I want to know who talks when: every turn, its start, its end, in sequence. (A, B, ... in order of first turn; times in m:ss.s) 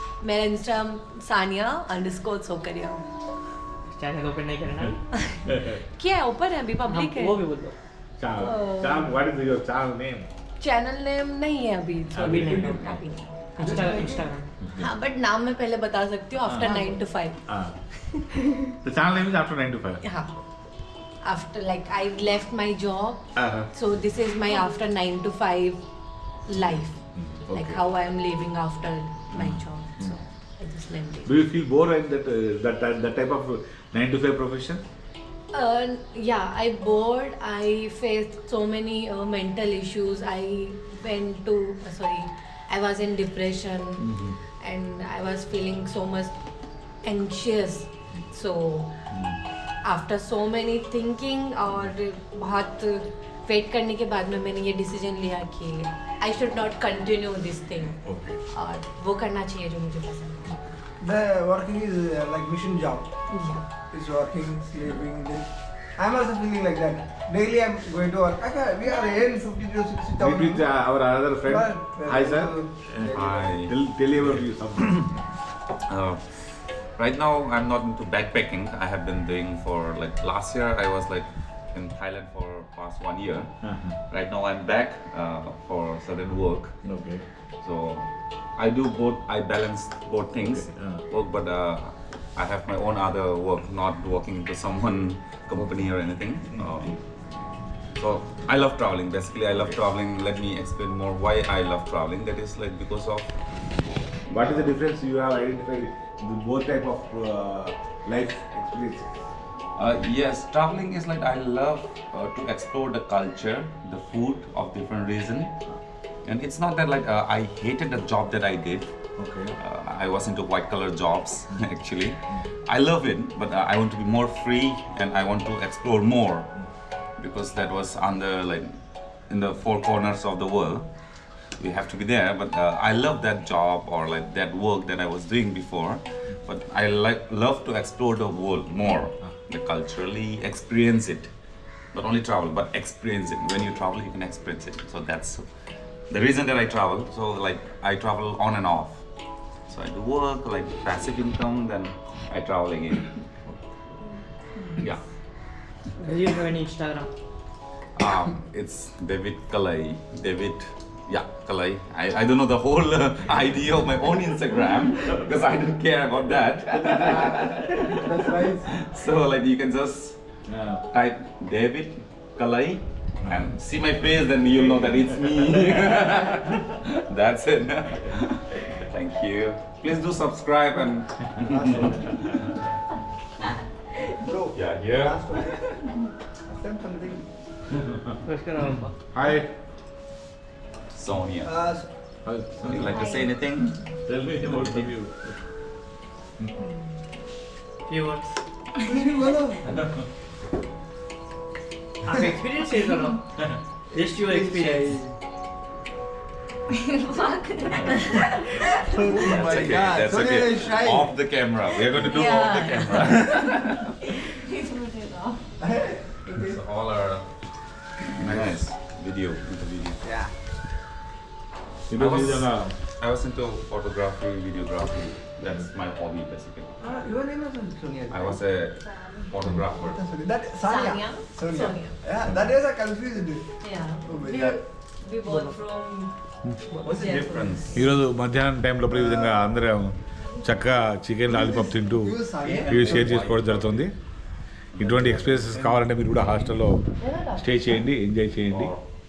0:00.2-0:03.1 A
0:03.9-0:05.0 B
0:05.1-0:07.4 A
0:06.8-0:07.8 B
0:08.2-0:10.3 C
0:08.4-0:09.2 A
0:10.6-0:13.4 A
0:12.1-0:12.8 C
0:12.2-0:12.9 B
0:13.6-0:14.5 B
0:13.6-0:14.3 D
0:14.8-0:17.4 A
0:16.4-0:16.9 C
0:17.5-0:17.7 C
0:18.2-0:18.6 A
0:18.8-0:20.0 C
0:20.0-0:20.3 A
0:21.2-0:25.8 A
0:23.4-0:23.7 C
0:26.5-0:27.0 A
0:27.2-0:27.8 C
0:27.5-0:31.3 A
0:29.3-0:30.1 C
0:31.2-0:34.8 C
0:35.5-0:46.3 A
0:44.0-0:44.3 C
0:47.0-0:48.9 A
0:49.1-0:49.4 C
0:49.8-1:00.6 A
0:58.0-0:58.4 C
1:01.0-1:03.1 D
1:03.3-1:03.6 A
1:03.9-1:10.7 D
1:10.2-1:15.2 C
1:11.5-1:13.5 D
1:13.1-1:13.7 E
1:14.3-1:15.1 E
1:15.9-1:26.7 E
1:23.6-1:24.0 C
1:26.8-1:27.2 C
1:27.6-1:37.0 E
1:30.4-1:31.0 C
1:36.6-1:37.0 C
1:38.0-1:43.4 E
1:44.3-1:44.8 E
1:44.3-1:49.1 C
1:49.8-1:55.5 E
1:56.2-1:58.9 E
1:59.2-1:59.6 C
1:59.5-2:06.5 E
2:07.2-2:08.8 E
2:09.3-2:10.9 E
2:11.6-2:21.3 E
2:21.9-2:25.4 E
2:26.1-2:29.0 E
2:29.7-2:33.1 E
2:34.8-2:35.0 E
2:36.0-2:37.1 B
2:38.0-2:50.2 E
2:46.7-2:48.7 D
2:50.5-2:50.8 C
2:50.8-3:02.4 E
2:53.2-2:53.5 C
2:54.8-2:55.3 C
3:01.4-3:02.2 D
3:04.2-3:05.8 D
3:04.5-3:05.4 E
3:06.4-3:07.2 D
3:08.2-3:08.9 B
3:09.1-3:09.5 C
3:10.9-3:11.5 E
3:11.4-3:11.9 D
3:12.2-3:13.1 C
3:12.6-3:13.8 E
3:14.0-3:15.4 C
3:14.4-3:14.9 E
3:17.8-3:18.4 B
3:18.8-3:19.9 D
3:22.0-3:23.2 B
3:23.9-3:25.0 B
3:24.1-3:25.1 D
3:27.1-3:28.9 A
3:28.7-3:31.2 D
3:28.8-3:33.8 E
3:32.0-3:33.8 A
3:34.4-3:35.3 A
3:35.6-3:36.6 D
3:36.3-3:37.2 E
3:38.1-3:40.0 E
3:38.2-3:38.5 C
3:40.0-3:40.3 D
3:41.9-3:42.8 C
3:41.9-3:46.8 E
3:46.8-3:48.4 D
3:48.1-3:50.0 E
3:49.7-3:53.5 D
3:50.6-3:52.0 A
3:53.6-3:56.1 A
3:54.0-3:54.6 D
3:55.3-3:55.6 B
3:56.7-3:57.8 E
3:56.8-3:57.6 D
3:56.8-3:57.6 A
3:57.7-4:02.1 C
3:58.9-3:59.5 D
4:01.3-4:03.1 D
4:02.4-4:03.9 E
4:02.7-4:03.9 C
4:04.7-4:06.6 E
4:04.8-4:06.8 C
4:07.0-4:07.4 A
4:07.3-4:08.7 C
4:08.5-4:08.8 E